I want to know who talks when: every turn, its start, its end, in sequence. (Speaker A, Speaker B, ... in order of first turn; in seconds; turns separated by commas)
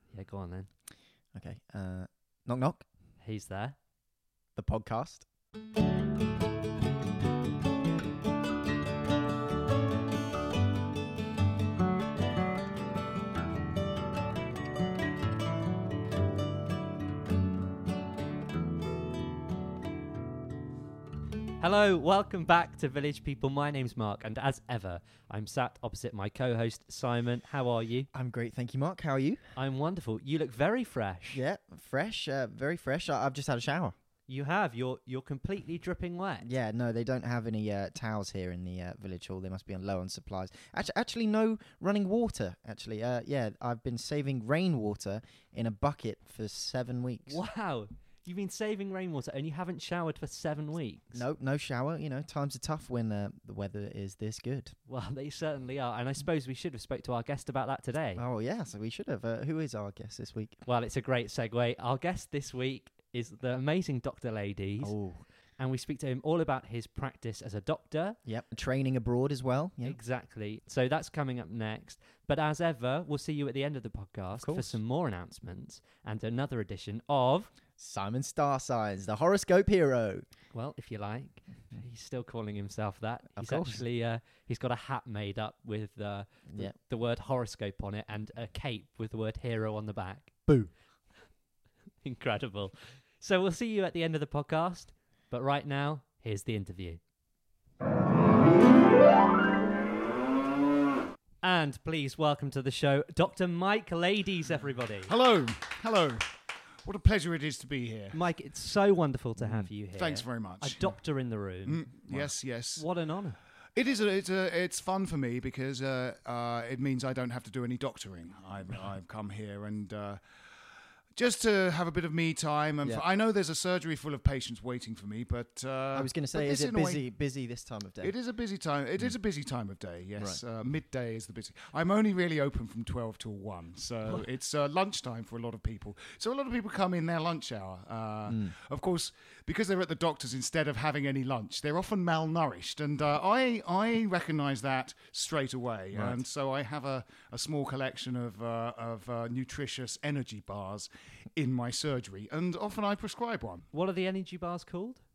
Speaker A: 0.1-0.7, Speaker B: 1.4-2.9, Speaker A: 3.2-3.8, Speaker B: 4.6-5.3, Speaker A: 21.6-28.1, Speaker B: 28.1-29.4, Speaker A: 29.6-31.4, Speaker B: 31.3-34.0, Speaker A: 34.3-36.5, Speaker B: 36.4-47.4, Speaker A: 47.3-51.2, Speaker B: 51.1-54.8, Speaker A: 54.9-58.2, Speaker B: 58.2-60.6, Speaker A: 60.7-65.0, Speaker B: 64.8-65.2, Speaker A: 65.6-68.2, Speaker B: 68.3-70.0, Speaker A: 69.8-77.5, Speaker B: 74.4-74.8, Speaker B: 77.8-80.3, Speaker A: 80.5-90.5, Speaker B: 83.4-83.8, Speaker A: 92.0-97.0, Speaker A: 101.4-105.1, Speaker C: 105.1-108.2, Speaker A: 108.1-113.4, Speaker B: 109.4-109.7, Speaker C: 109.9-110.9, Speaker C: 111.7-112.9, Speaker C: 113.8-120.2, Speaker C: 121.1-127.0, Speaker B: 126.0-128.1, Speaker C: 128.0-153.7, Speaker B: 138.3-138.5, Speaker B: 145.9-146.2, Speaker A: 153.7-155.0